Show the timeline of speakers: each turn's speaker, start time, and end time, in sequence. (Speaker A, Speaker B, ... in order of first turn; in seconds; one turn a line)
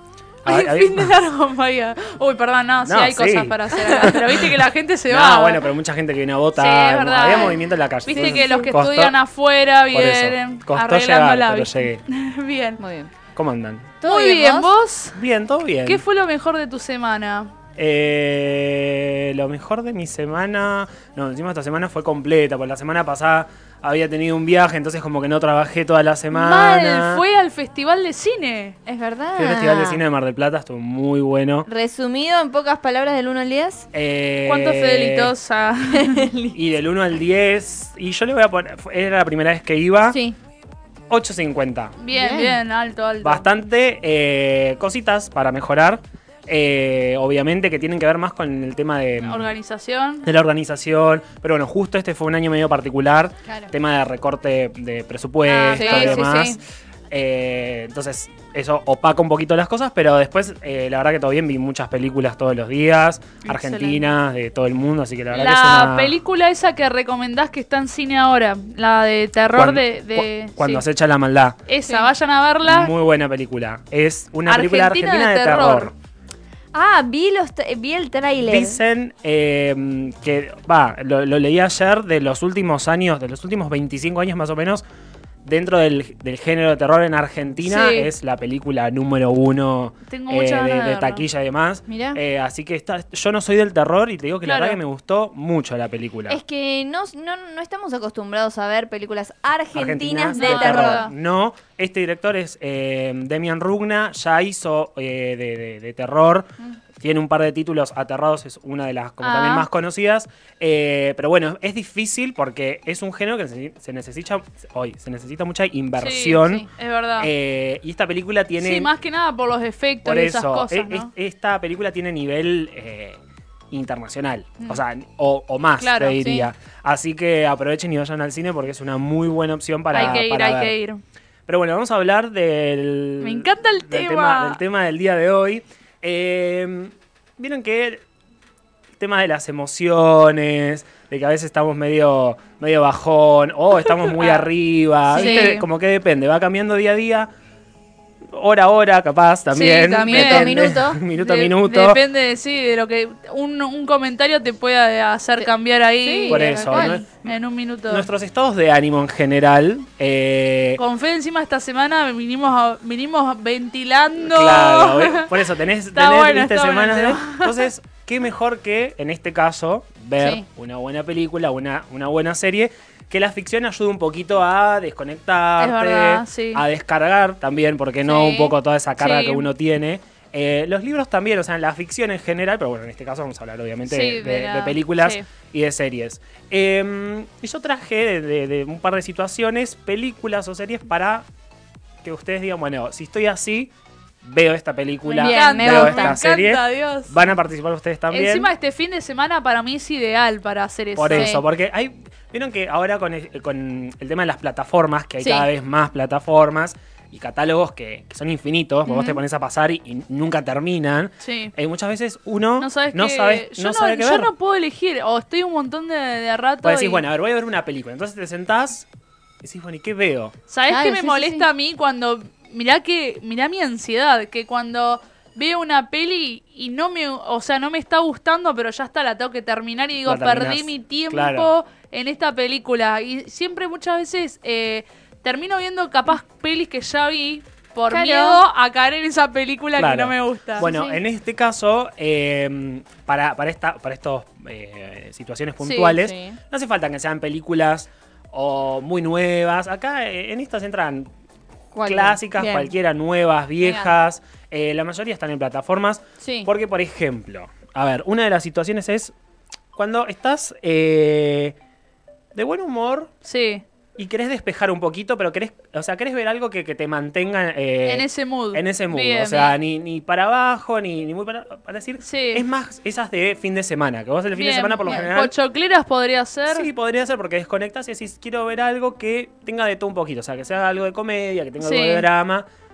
Speaker A: 0.4-1.1
Speaker B: 0.5-5.6
Speaker A: 2.8-9.2
Speaker C: 3.8-4.2
Speaker B: 6.5-12.8
Speaker C: 8.1-8.7
Speaker A: 9.9-12.0
Speaker C: 12.8-13.1
Speaker A: 13.3-14.0
Speaker C: 14.0-14.7
Speaker B: 14.0-15.2
Speaker A: 15.1-16.0
Speaker B: 15.8-17.5
Speaker A: 17.8-27.2
Speaker B: 26.3-28.8
Speaker C: 28.9-30.0
Speaker A: 29.4-31.7
Speaker C: 31.7-33.9
Speaker A: 33.9-35.3
Speaker B: 34.4-36.3
Speaker C: 35.9-36.6
Speaker A: 36.5-40.2
Speaker C: 40.0-40.4
Speaker A: 41.1-42.0
Speaker B: 42.0-43.5
Speaker C: 42.1-42.6
Speaker A: 43.2-49.5
Speaker B: 49.2-50.3
Speaker A: 50.2-56.6
Speaker B: 55.5-56.5
Speaker C: 55.7-56.6
Speaker A: 57.1-66.1
Speaker B: 63.5-64.0
Speaker B: 65.3-70.8
Speaker A: 69.5-71.6
Speaker B: 71.7-72.9
Speaker A: 72.6-75.9
Speaker B: 74.5-75.9
Speaker C: 76.7-78.8
Speaker A: 78.5-84.8
Speaker A: 85.4-96.4
Speaker B: 87.6-88.1
Speaker B: 90.1-91.2
Speaker C: 91.9-92.2
Speaker B: 94.4-94.8
Speaker C: 96.3-101.0
Speaker A: 99.7-116.6
Speaker B: 100.3-101.1
Speaker B: 109.2-109.7
Speaker B: 116.0-117.3
Speaker A: 117.2-118.9
Speaker B: 118.6-121.1
Speaker A: 120.0-123.2
Speaker A: 123.7-130.7
Speaker B: 125.8-126.2
Speaker C: 126.2-126.5
Speaker B: 129.9-131.0
Speaker A: 131.5-138.0
Speaker B: 133.2-134.6
Speaker A: 139.0-147.3
Speaker B: 144.2-144.5
Speaker B: 145.1-145.6
Speaker C: 145.1-145.5
Speaker A: 148.3-152.0
Speaker B: 149.5-158.1
Speaker C: 150.0-151.0
Speaker C: 156.0-157.0
Speaker A: 156.3-157.1
Speaker A: 157.9-160.8
Speaker B: 160.8-165.3
Speaker A: 164.2-191.3
Speaker B: 165.9-167.7
Speaker C: 170.2-170.4
Speaker B: 175.6-176.6
Speaker B: 178.0-179.4
Speaker B: 183.9-185.2
Speaker A: 192.0-198.5
Speaker C: 195.1-196.2
Speaker B: 195.1-197.2
Speaker B: 198.1-201.3
Speaker A: 200.9-214.3
Speaker C: 201.1-201.4
Speaker C: 205.2-205.5
Speaker C: 208.9-209.1
Speaker B: 211.2-211.5
Speaker B: 212.6-217.0
Speaker A: 216.6-218.8
Speaker A: 219.4-220.3
Speaker B: 220.5-240.8
Speaker C: 220.7-221.5
Speaker A: 230.0-231.5
Speaker C: 237.9-238.4
Speaker A: 239.7-251.1
Speaker C: 240.6-241.0
Speaker B: 245.6-246.0
Speaker C: 245.9-246.4
Speaker C: 251.7-252.7
Speaker A: 251.8-259.1
Speaker C: 253.6-253.9
Speaker C: 256.2-256.5
Speaker A: 259.7-261.5
Speaker A: 262.3-263.1
Speaker B: 263.2-263.6
Speaker A: 264.0-275.3
Speaker B: 267.8-269.5
Speaker B: 272.0-272.4
Speaker B: 274.3-276.7
Speaker A: 276.5-282.5
Speaker B: 281.6-282.1